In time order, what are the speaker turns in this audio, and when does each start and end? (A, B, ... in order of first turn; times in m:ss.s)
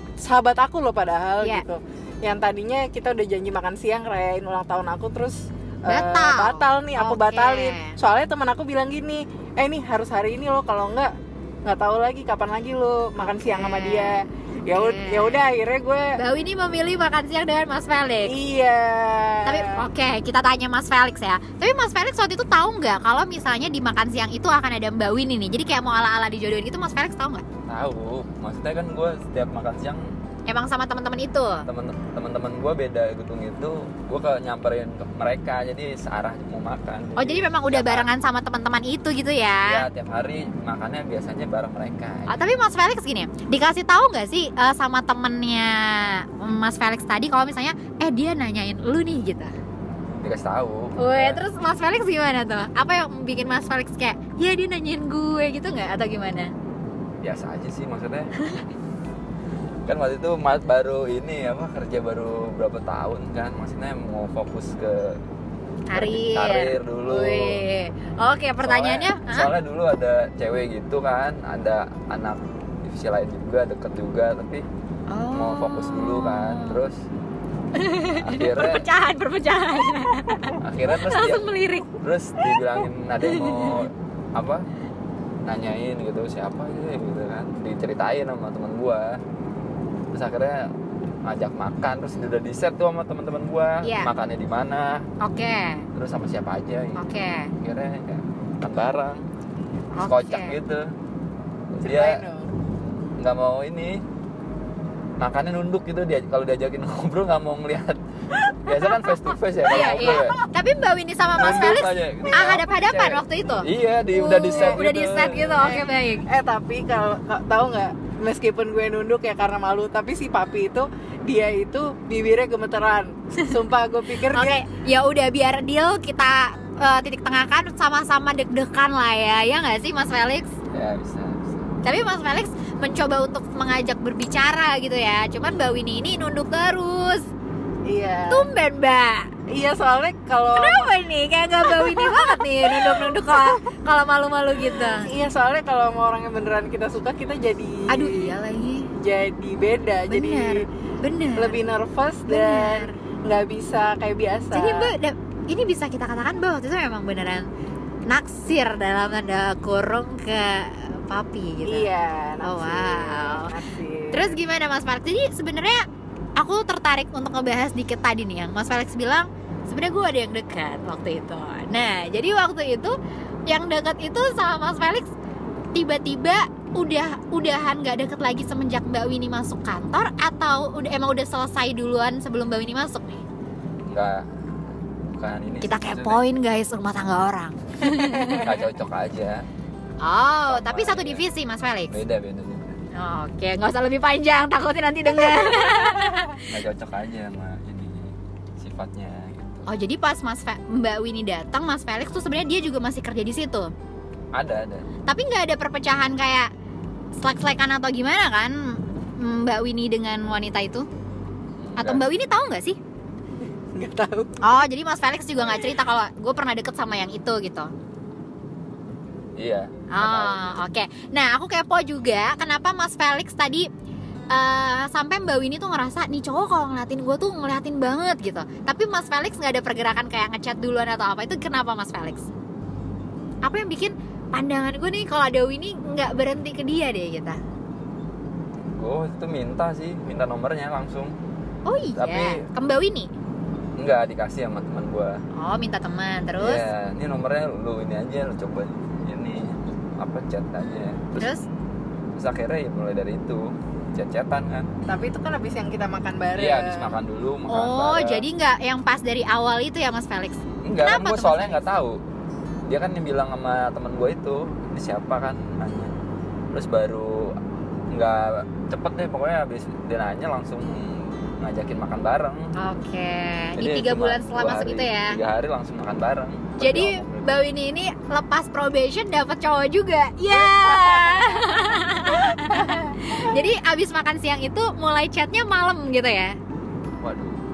0:00.2-0:11.1 A
0:05.9-0:08.0 B
0:11.6-0:16.2 A
0:13.2-0:15.4 B
0:16.2-0:18.3 B
0:18.2-0:19.8 A
0:19.4-0:27.4 B
0:27.7-0:30.1 C
0:30.5-0:31.6 B
0:31.6-0:38.1 C
0:37.2-0:39.8 B
0:39.6-0:42.4 C
0:42.3-0:49.5 B
0:50.2-0:51.4 C
0:51.0-0:56.5 B
0:57.2-0:58.3 C
0:59.8-1:05.2 C
1:05.9-1:09.5 B
1:05.9-1:07.6 C
1:08.6-1:14.6 C
1:15.1-1:16.8 B
1:15.3-1:17.0 C
1:17.7-1:21.9 B
1:18.1-1:18.9 C
1:20.6-1:24.6 C
1:23.2-1:23.8 B
1:25.4-1:29.2 C
1:30.1-1:30.7 C
1:31.2-1:35.0 C
1:33.8-1:34.1 B
1:35.2-1:35.8 B
1:35.9-1:37.0 C
1:37.0-1:37.5 B
1:37.6-1:39.2 C
1:39.9-1:40.6 B
1:40.0-1:40.9 C
1:41.7-1:42.2 C
1:41.8-1:42.5 A
1:43.2-1:44.0 C
1:45.2-1:50.4 C
1:49.6-1:56.3 B
1:51.3-1:55.7 C
1:52.2-1:52.5 A
1:55.6-2:04.6 A
2:04.3-2:10.5 B
2:10.7-2:11.7 C
2:11.8-2:17.3 B
2:17.8-2:18.5 A
2:18.3-2:19.3 B
2:19.5-2:20.9 A
2:20.5-2:25.1 B
2:21.6-2:23.6 A
2:24.7-2:28.3 A
2:27.9-2:28.9 B
2:29.0-2:30.7 A
2:30.1-2:31.6 B
2:31.4-2:34.9 A
2:32.3-2:32.9 B
2:34.5-2:37.5 B
2:38.1-2:41.9 B
2:41.6-2:44.4 A
2:42.4-2:43.6 B
2:44.1-2:45.8 B
2:46.4-2:52.9 B
2:53.5-2:55.1 B
2:55.7-3:03.2 B
3:03.9-3:04.3 C
3:05.1-3:06.2 C
3:05.6-3:08.5 B
3:08.0-3:08.5 A
3:08.2-3:09.4 C
3:10.0-3:12.0 B
3:10.5-3:11.2 C
3:11.9-3:12.8 C
3:12.9-3:16.5 B
3:16.4-3:19.7 C
3:19.7-3:23.7 B
3:24.3-3:24.9 C
3:25.1-3:26.5 B
3:27.2-3:30.8 B
3:31.6-3:32.1 C
3:31.8-3:32.8 B
3:33.7-3:34.4 A
3:34.4-3:37.7 B
3:39.4-3:40.6 C
3:39.9-3:43.7 B
3:44.3-3:52.3 B
3:53.4-3:57.4 B
3:58.7-4:01.2 C
4:01.6-4:03.1 B
4:02.0-4:02.4 C
4:03.8-4:05.2 C
4:05.3-4:06.6 B
4:06.4-4:11.3 C
4:11.2-4:11.4 B
4:12.2-4:14.7 C
4:14.8-4:17.0 A
4:16.4-4:18.2 C
4:17.5-4:21.6 B
4:20.6-4:22.0 C
4:22.7-4:25.9 C
4:26.5-4:27.4 C
4:27.9-4:32.5 C
4:32.6-4:35.2 B
4:33.6-4:37.4 C
4:36.6-4:46.4 B
4:40.3-4:43.4 A
4:47.0-4:47.4 C